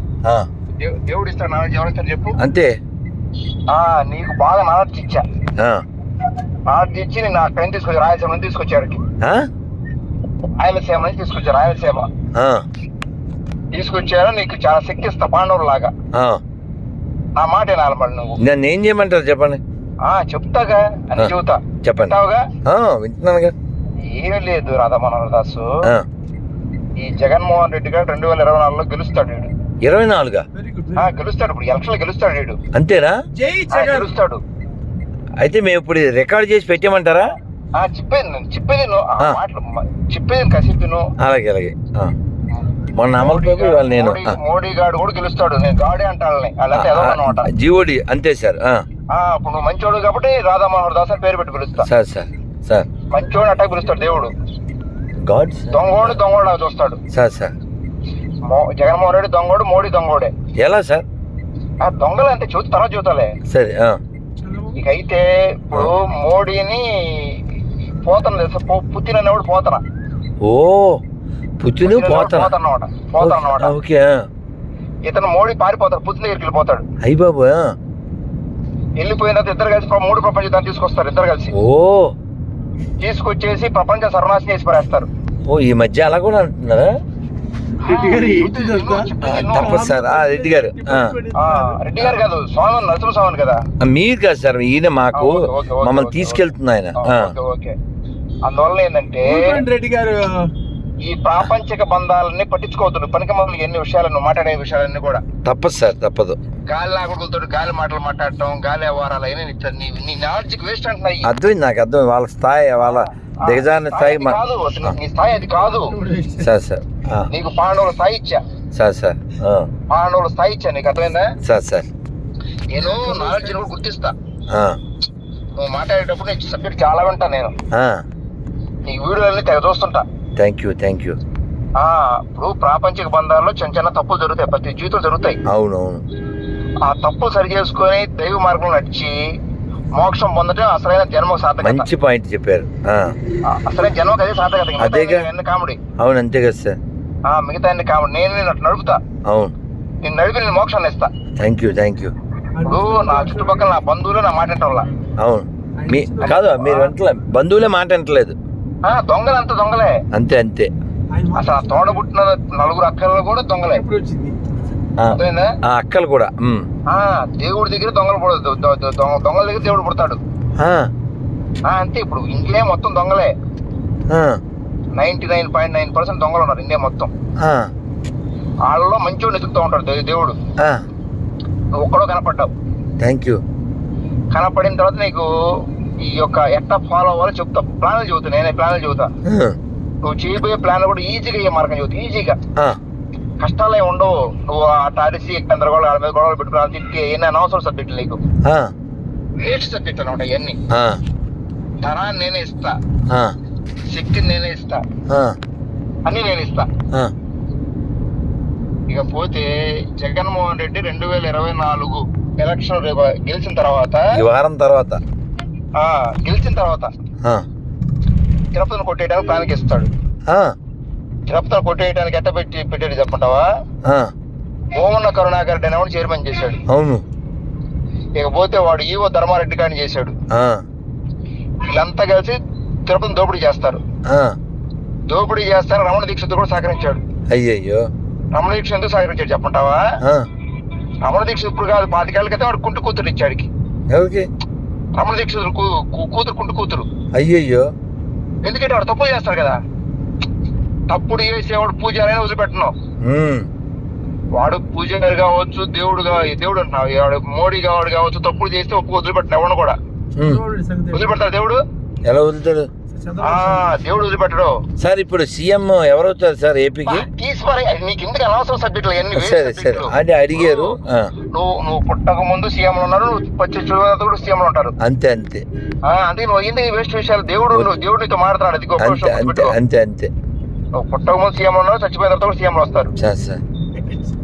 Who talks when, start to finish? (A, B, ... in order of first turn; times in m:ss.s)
0:00.8-0:02.4 A
0:02.4-0:02.7 B
0:03.7-0:05.2 A
0:06.7-0:09.0 A
0:10.6-0:12.1 A
0:12.3-0:12.6 B
0:13.7-0:15.9 A
0:16.1-0:16.4 B
0:17.4-0:18.4 A
0:18.4-0:19.6 B
0:20.0-0:22.4 A
0:21.8-0:22.1 B
0:22.6-0:23.5 B
0:24.0-0:25.7 A
0:27.0-0:29.5 A
0:29.8-0:30.4 B
0:30.5-0:31.1 C
0:31.0-0:32.6 A
0:32.7-0:33.2 B
0:33.3-0:34.1 C
0:33.7-0:34.4 A
0:35.4-0:37.3 B
0:37.8-0:41.1 A
0:41.2-0:42.1 B
0:42.6-0:47.5 A
0:42.9-0:44.3 B
0:46.7-0:48.8 B
0:49.1-0:51.9 A
0:51.8-0:52.9 B
0:53.1-0:54.3 A
0:53.3-0:54.3 C
0:55.2-0:56.2 B
0:55.7-0:57.0 A
0:57.1-0:57.5 B
0:58.4-1:00.3 A
1:00.6-1:01.0 B
1:01.8-1:03.3 A
1:03.5-1:04.0 B
1:04.4-1:04.8 C
1:04.8-1:07.4 A
1:08.0-1:09.8 A
1:10.4-1:11.0 B
1:11.6-1:12.5 B
1:11.8-1:13.7 A
1:13.2-1:14.2 B
1:15.0-1:16.8 A
1:17.0-1:17.7 B
1:19.0-1:21.5 A
1:21.5-1:22.1 B
1:23.0-1:25.1 A
1:25.4-1:26.9 B
1:27.8-1:29.9 A
1:27.9-1:31.8 C
1:29.2-1:31.2 B
1:31.3-1:33.6 A
1:33.8-1:37.3 B
1:35.1-1:36.4 A
1:37.0-1:37.7 A
1:38.4-1:39.6 A
1:39.2-1:40.5 C
1:41.0-1:45.2 A
1:45.4-1:46.4 B
1:46.7-1:51.3 A
1:51.2-1:54.9 B
1:52.9-1:56.0 A
1:55.4-1:56.5 C
1:56.4-1:57.3 B
1:57.3-1:58.4 A
1:58.7-1:59.7 B
1:59.9-2:01.3 A
2:01.4-2:01.9 B
2:02.7-2:04.1 A
2:02.8-2:03.7 C
2:04.5-2:04.8 B
2:05.6-2:07.5 A
2:08.9-2:10.0 A
2:10.4-2:11.2 B
2:11.8-2:15.4 A
2:15.5-2:16.0 B
2:16.8-2:19.1 A
2:20.0-2:21.9 A
2:21.6-2:23.1 B
2:23.5-2:25.8 A
2:24.8-2:25.3 B
2:26.0-2:26.8 B
2:27.3-2:29.0 A
2:29.3-2:29.5 B
2:30.0-2:31.1 A
2:31.4-2:32.1 B
2:32.5-2:33.8 C
2:32.6-2:34.9 A
2:35.2-2:38.4 B
2:35.8-2:36.9 C
2:38.8-2:39.9 A
2:40.1-2:40.7 B
2:41.1-2:42.0 C
2:41.4-2:43.8 A
2:43.6-2:44.5 C
2:45.0-2:46.6 B
2:45.1-2:45.5 A
2:46.9-2:50.2 A
2:50.6-2:50.9 B
2:51.7-2:53.3 A
2:54.1-2:54.4 B
2:55.0-2:57.1 A
2:57.4-2:57.7 B
2:58.6-3:00.4 A
3:01.8-3:02.5 A
3:03.0-3:03.4 B
3:04.3-3:09.1 A
3:09.3-3:09.6 B
3:10.0-3:12.4 A
3:13.4-3:18.2 A
3:18.4-3:18.7 B
3:19.4-3:20.6 A
3:20.7-3:21.0 B
3:21.8-3:22.8 A
3:23.9-3:24.8 A
3:25.1-3:25.4 B
3:26.0-3:26.7 A
3:28.9-3:34.0 A
3:34.2-3:35.0 B
3:35.8-3:36.9 A
3:38.5-3:39.9 A
3:40.3-3:40.5 B
3:41.3-3:43.4 A
3:43.8-3:44.1 B
3:44.8-3:46.6 A
3:46.7-3:47.0 B
3:48.2-3:50.1 A
3:50.3-3:50.6 B
3:51.7-3:53.8 A
3:54.1-3:54.4 B
3:55.1-3:57.0 A
3:57.3-3:57.9 B
3:58.4-3:59.8 A
4:01.1-4:03.5 A
4:03.9-4:04.3 B
4:05.0-4:06.9 A
4:07.1-4:07.7 B
4:08.4-4:09.6 A
4:10.9-4:12.7 A
4:13.0-4:13.5 B
4:14.4-4:19.8 A
4:20.2-4:20.4 B
4:20.2-4:21.2 C
4:20.9-4:21.6 A
4:22.0-4:22.7 B
4:22.9-4:23.8 C
4:23.2-4:24.5 A
4:24.8-4:27.0 B
4:26.8-4:30.7 A
4:29.1-4:31.1 B
4:31.3-4:34.7 A
4:34.8-4:35.4 B
4:35.8-4:39.5 A
4:37.5-4:37.8 B
4:38.8-4:40.1 B
4:40.8-4:42.9 A
4:43.0-4:43.4 B